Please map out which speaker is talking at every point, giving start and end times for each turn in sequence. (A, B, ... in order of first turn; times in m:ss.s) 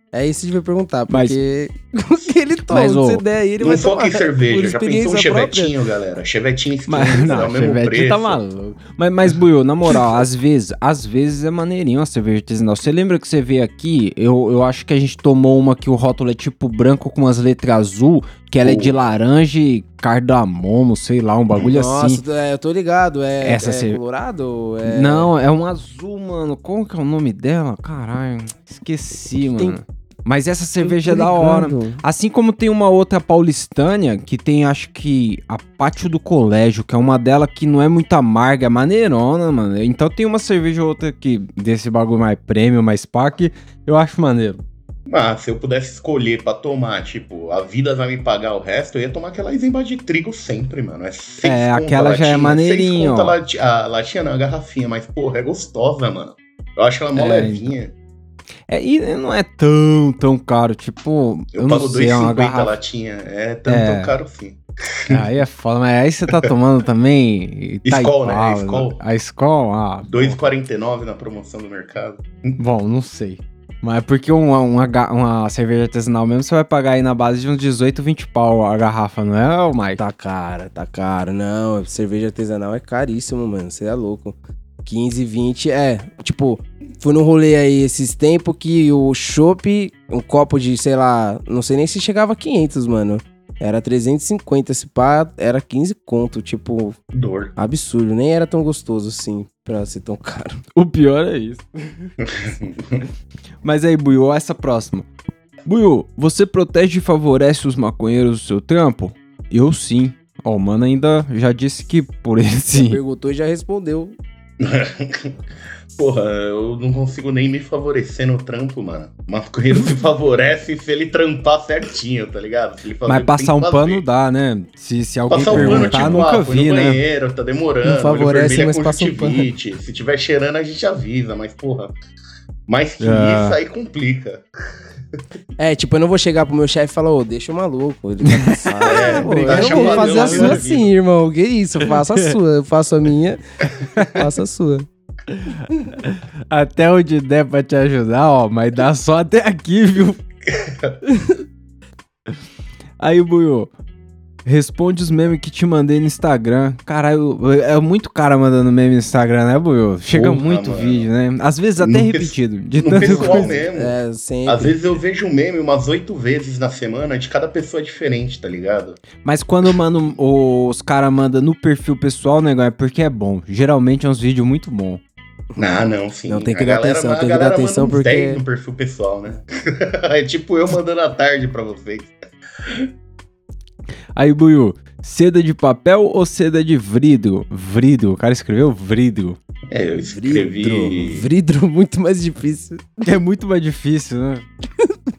0:00.1-0:05.7 A
0:01.1-0:01.4 B
0:02.7-0:03.2 B
0:03.6-0:08.4 C
0:06.9-0:22.2 B
0:18.6-0:18.9 C
0:21.6-0:25.3 A
0:23.4-0:24.0 B
0:24.8-0:44.6 B
0:30.8-0:32.0 A
0:45.1-0:57.9 C
0:51.4-0:53.4 B
0:57.2-0:57.8 B
0:58.7-1:02.8 B
1:01.6-1:05.2 C
1:03.7-1:04.2 B
1:05.1-1:10.4 B
1:07.8-1:09.0 C
1:10.1-1:12.6 C
1:12.6-1:20.0 B
1:20.0-1:37.0 A
1:37.1-1:37.5 C
1:37.6-1:40.6 A
1:40.8-1:42.1 B
1:42.2-1:43.0 C
1:43.6-1:45.1 B
1:45.7-1:53.0 B
1:52.8-1:54.2 A
1:54.6-1:55.4 C
1:55.9-2:04.0 C
2:03.1-2:07.0 B
2:05.3-2:12.0 C
2:05.5-2:06.2 A
2:07.8-2:09.5 A
2:12.7-2:14.4 C
2:13.0-2:13.6 B
2:15.6-2:23.4 A
2:18.3-2:20.7 B
2:18.8-2:20.9 C
2:24.0-2:24.9 A
2:25.4-2:30.2 B
2:30.5-2:31.0 C
2:33.0-2:33.7 B
2:34.4-2:43.6 B
2:40.1-2:41.1 C
2:41.8-2:44.0 C
2:43.0-2:44.8 A
2:44.5-2:49.0 C
2:49.2-2:55.0 B
2:55.6-3:02.2 C
2:56.3-2:58.4 A
3:04.2-3:09.4 B
3:09.7-3:11.3 C
3:10.1-3:13.0 A
3:13.0-3:14.5 B